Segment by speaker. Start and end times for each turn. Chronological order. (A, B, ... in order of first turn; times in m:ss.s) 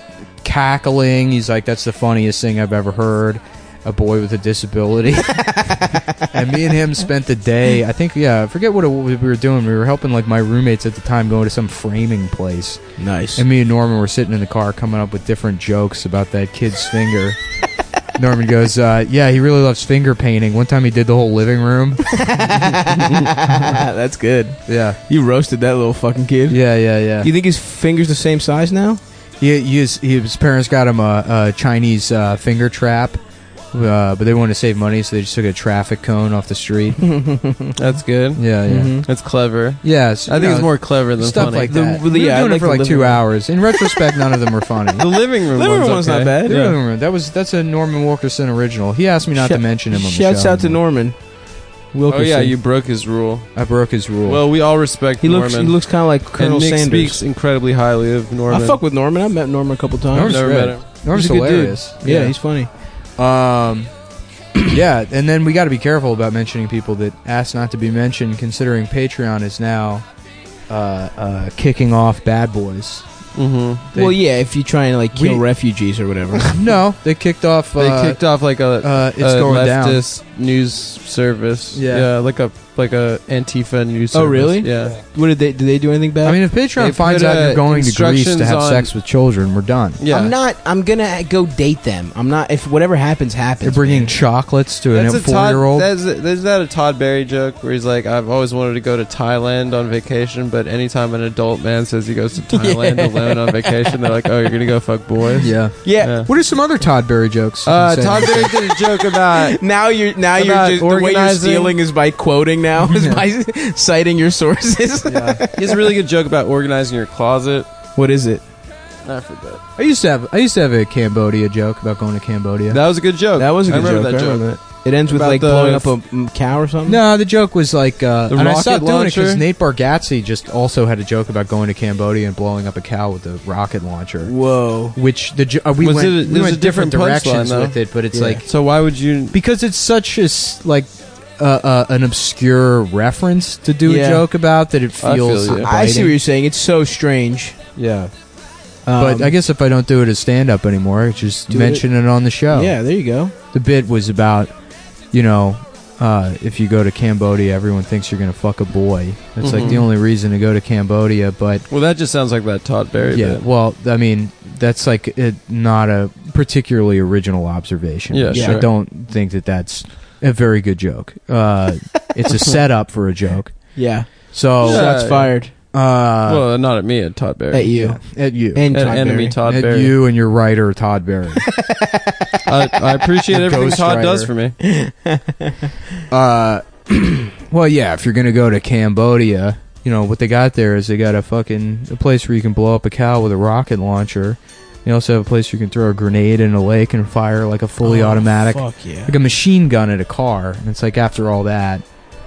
0:00.4-0:12.8 A
0:05.5-0:06.2 B
0:13.0-0:13.4 B
0:13.4-0:17.4 A
0:18.1-0:22.6 A
0:22.1-0:26.6 B
0:24.7-0:25.0 A
0:26.5-0:27.3 A
0:27.2-0:29.0 B
0:29.4-0:33.2 A
0:33.7-0:37.0 A
0:37.0-0:37.8 B
0:37.8-0:41.7 C
0:38.4-0:39.0 A
0:38.7-0:39.0 B
0:39.8-0:45.1 A
0:41.4-0:43.2 B
0:45.0-0:46.8 C
0:45.5-0:46.6 B
0:46.4-0:50.8 A
0:49.3-0:51.2 B
0:51.9-0:52.5 B
0:52.1-0:53.5 C
0:53.5-0:54.4 A
0:54.2-0:58.8 C
0:55.2-0:57.2 B
0:58.5-1:02.7 B
1:00.1-1:02.0 A
1:00.2-1:00.8 C
1:02.0-1:02.3 C
1:03.2-1:03.9 A
1:04.6-1:10.0 A
1:10.7-1:13.0 A
1:13.3-1:13.9 C
1:13.9-1:16.6 B
1:15.1-1:15.4 A
1:16.3-1:18.2 A
1:17.8-1:25.0 C
1:18.8-1:20.0 A
1:21.7-1:22.1 A
1:24.1-1:26.4 B
1:26.2-1:30.0 A
1:26.8-1:28.9 C
1:30.0-1:30.3 C
1:30.1-1:34.1 B
1:33.6-1:35.9 A
1:34.9-1:46.3 C
1:42.5-1:44.0 B
1:45.4-1:48.5 A
1:45.8-1:46.2 B
1:47.6-1:49.6 C
1:48.8-1:55.9 B
1:50.3-1:51.8 C
1:52.8-1:53.2 A
1:55.1-1:55.4 A
1:55.5-1:57.7 C
1:58.0-1:58.4 B
1:59.0-1:59.6 C
1:59.8-2:02.8 A
2:02.7-2:04.4 C
2:03.4-2:07.0 B
2:05.1-2:05.9 C
2:06.8-2:14.3 A
2:08.3-2:09.4 C
2:14.2-2:15.0 B
2:14.9-2:18.4 A
2:15.8-2:17.8 C
2:18.1-2:18.4 B
2:18.4-2:19.3 C
2:19.3-2:26.2 A
2:23.8-2:24.2 B
2:25.0-2:25.7 C
2:25.5-2:27.6 B
2:27.8-2:28.1 A
2:28.8-2:29.3 B
2:29.0-2:32.8 A
2:31.5-2:31.8 B
2:32.5-2:33.3 B
2:33.5-2:34.5 A
2:35.1-2:41.6 A
2:39.4-2:39.8 C
2:41.7-2:43.4 C
2:43.1-2:53.7 A
2:48.1-2:48.7 C
2:48.3-2:48.6 B
2:53.7-2:55.5 B
2:54.3-2:54.9 A
2:54.6-2:55.3 C
2:55.7-2:56.4 A
2:56.2-2:57.7 C
2:57.5-2:58.0 B
2:57.7-3:01.4 A
2:58.5-2:59.4 B
2:58.7-3:00.0 C
3:01.5-3:02.4 B
3:02.4-3:04.6 C
3:03.3-3:04.3 A
3:04.6-3:05.7 B
3:06.1-3:21.8 A
3:17.8-3:19.1 B